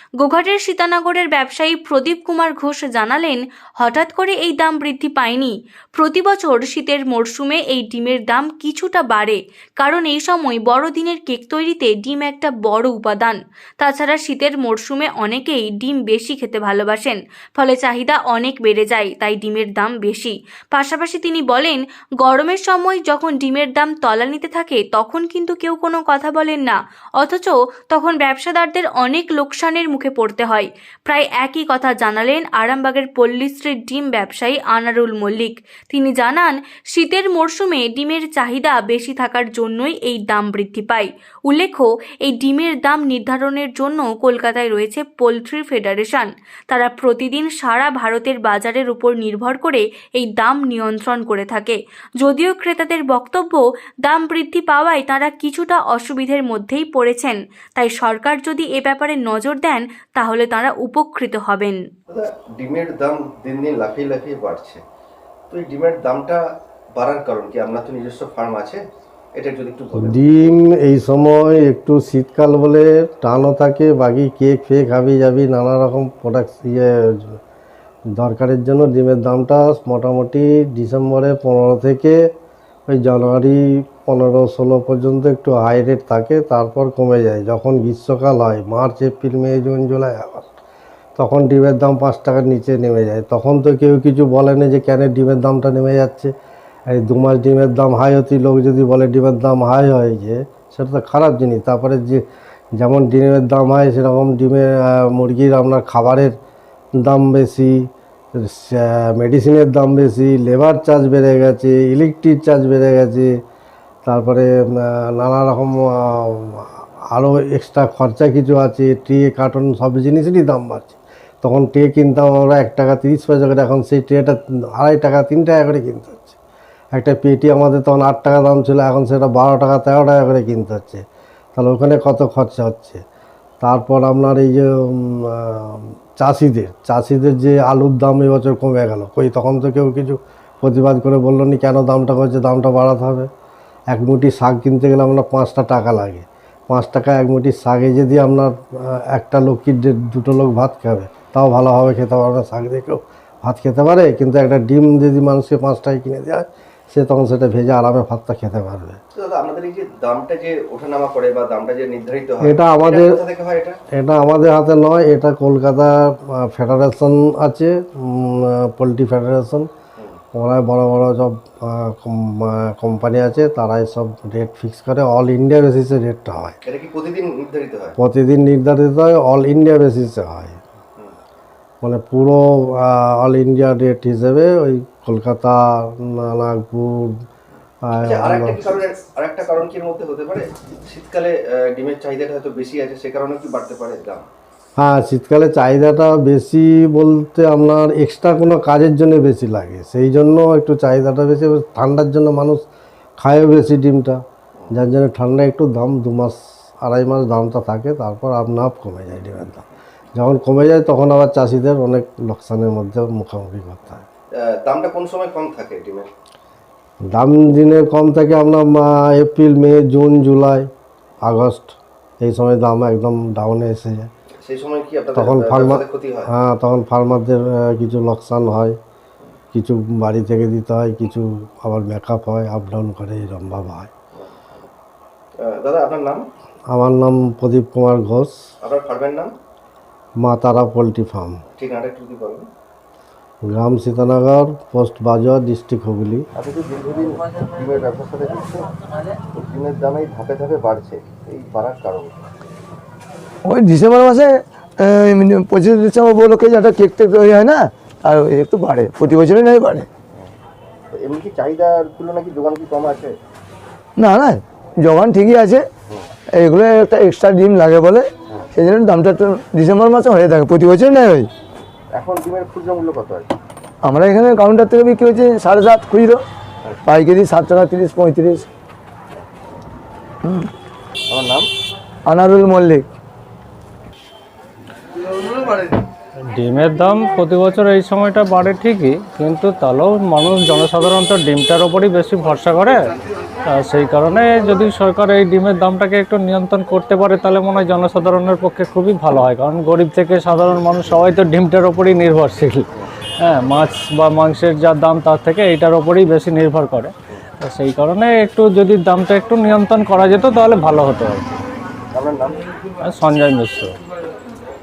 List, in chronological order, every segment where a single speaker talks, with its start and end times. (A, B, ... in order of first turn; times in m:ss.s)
0:00.2-1:01.8 A
1:02.1-1:04.8 B
1:05.5-1:06.4 B
1:07.0-1:08.8 B
1:09.3-1:10.2 B
1:10.0-1:17.4 C
1:18.2-1:22.2 C
1:22.9-1:30.5 C
1:31.2-1:36.3 C
1:36.9-1:42.2 C
1:42.8-1:46.3 C
1:47.0-1:53.3 C
1:54.0-2:06.4 C
2:06.9-2:11.0 C
2:11.5-2:13.0 C
2:13.6-2:23.3 C
2:23.9-2:39.0 C
2:39.1-2:43.8 B
2:42.4-2:43.2 C
2:43.9-2:49.7 C
2:50.3-2:56.6 C
2:56.6-2:58.0 B
2:58.0-3:00.6 C
3:01.8-3:07.1 C
3:07.8-3:08.6 C
3:08.0-3:14.3 B
3:14.8-3:22.6 C
3:23.2-3:24.2 C
3:24.7-3:34.0 C
3:34.4-3:36.1 B
3:37.1-3:40.7 C
3:41.2-3:44.1 C
3:44.4-3:46.3 B
3:45.1-3:48.8 C
3:49.5-3:53.9 C
3:54.1-3:54.7 B
3:55.3-3:56.2 B
3:56.7-3:58.4 C
3:58.6-3:59.3 B
4:00.2-4:01.4 C
4:01.6-4:02.5 B
4:03.4-4:06.3 C
4:06.4-4:08.7 B
4:09.3-4:12.4 B
4:13.4-4:19.9 D
4:20.9-4:23.2 B
4:24.0-4:25.7 D
4:26.4-4:31.3 D
4:31.9-4:33.4 B
4:33.8-4:36.2 D
4:36.8-4:38.5 D
4:41.1-4:41.5 B
4:42.0-4:42.8 D
4:46.3-4:52.8 E
4:53.4-5:02.6 E
5:03.2-5:11.4 E
5:11.9-5:12.5 B
5:12.8-5:13.7 E